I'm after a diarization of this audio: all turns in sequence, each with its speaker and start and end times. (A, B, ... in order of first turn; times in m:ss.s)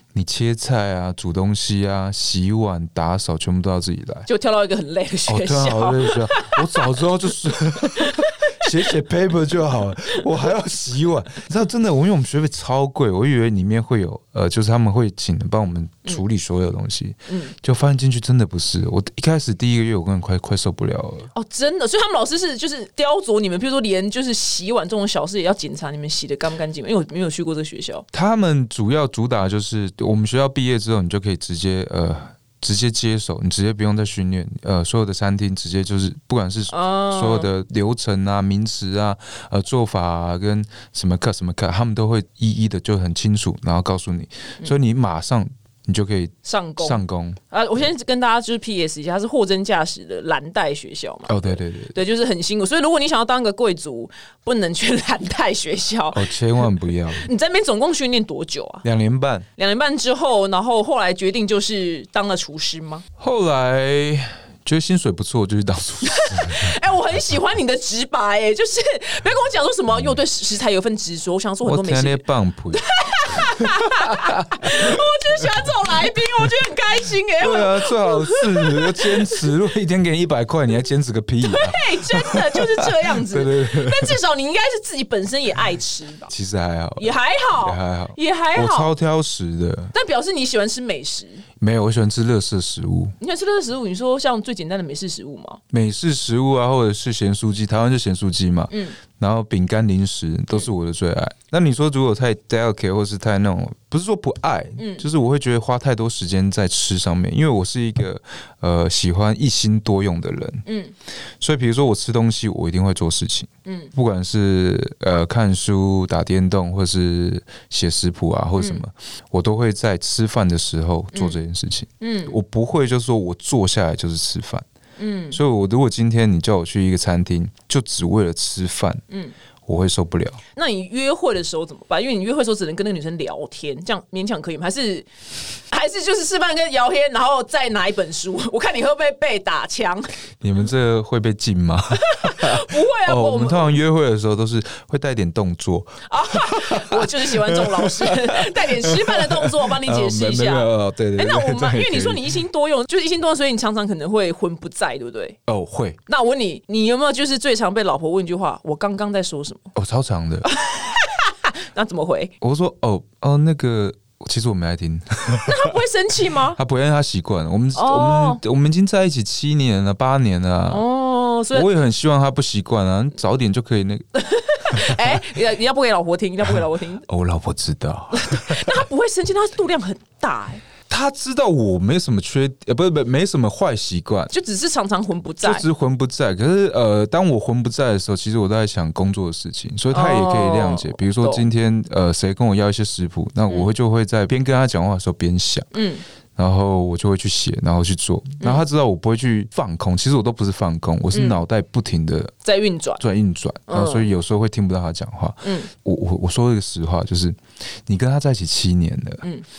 0:00.1-0:04.3 A
0:04.3-0:07.0 B
0:05.3-0:21.3 A
0:07.8-0:08.9 B
0:17.3-0:17.5 B
0:21.3-0:28.1 B
0:28.1-0:47.4 A
0:36.7-0:37.5 B
0:46.4-0:58.8 B
0:51.3-0:52.0 A
0:56.1-0:57.3 A
0:58.8-0:59.5 A
0:59.6-1:03.0 B
1:03.2-1:06.8 A
1:06.0-1:12.2 B
1:11.6-1:15.4 A
1:12.7-1:19.4 B
1:17.4-1:24.2 A
1:21.4-1:26.3 B
1:26.3-1:29.9 A
1:27.0-1:28.9 B
1:29.9-1:31.4 B
1:31.6-1:33.2 A
1:33.2-1:35.6 B
1:35.7-1:50.7 A
1:38.7-1:39.0 B
1:44.8-1:45.0 B
1:50.7-1:50.9 B
1:51.4-2:04.7 A
1:53.7-1:53.9 B
2:02.0-2:02.4 B
2:05.0-2:05.4 B
2:05.3-2:09.0 A
2:09.1-2:09.4 B
2:09.7-2:10.4 A
2:10.6-2:15.1 B
2:15.7-2:20.1 B
2:20.4-2:32.4 A
2:22.0-2:23.8 B
2:26.1-2:35.4 B
2:35.5-2:36.0 A
2:36.1-2:39.7 B
2:39.8-2:40.5 A
2:40.5-2:42.3 B
2:42.4-2:45.8 A
2:45.4-2:46.6 B
2:46.5-2:50.8 A
2:47.8-2:48.4 B
2:50.7-2:51.7 B
2:51.5-2:54.0 A
2:54.2-2:57.1 B
2:54.7-2:55.2 A
2:56.5-2:58.9 A
2:58.1-3:00.6 B
3:00.9-3:04.3 A
3:04.3-3:05.6 B
3:05.4-3:15.7 A
3:09.9-3:11.5 B
3:15.7-3:16.0 B
3:16.4-3:22.3 A
3:21.1-3:21.4 B
3:22.4-3:23.0 B
3:23.0-3:29.2 A
3:23.7-3:24.1 B
3:25.4-3:25.7 B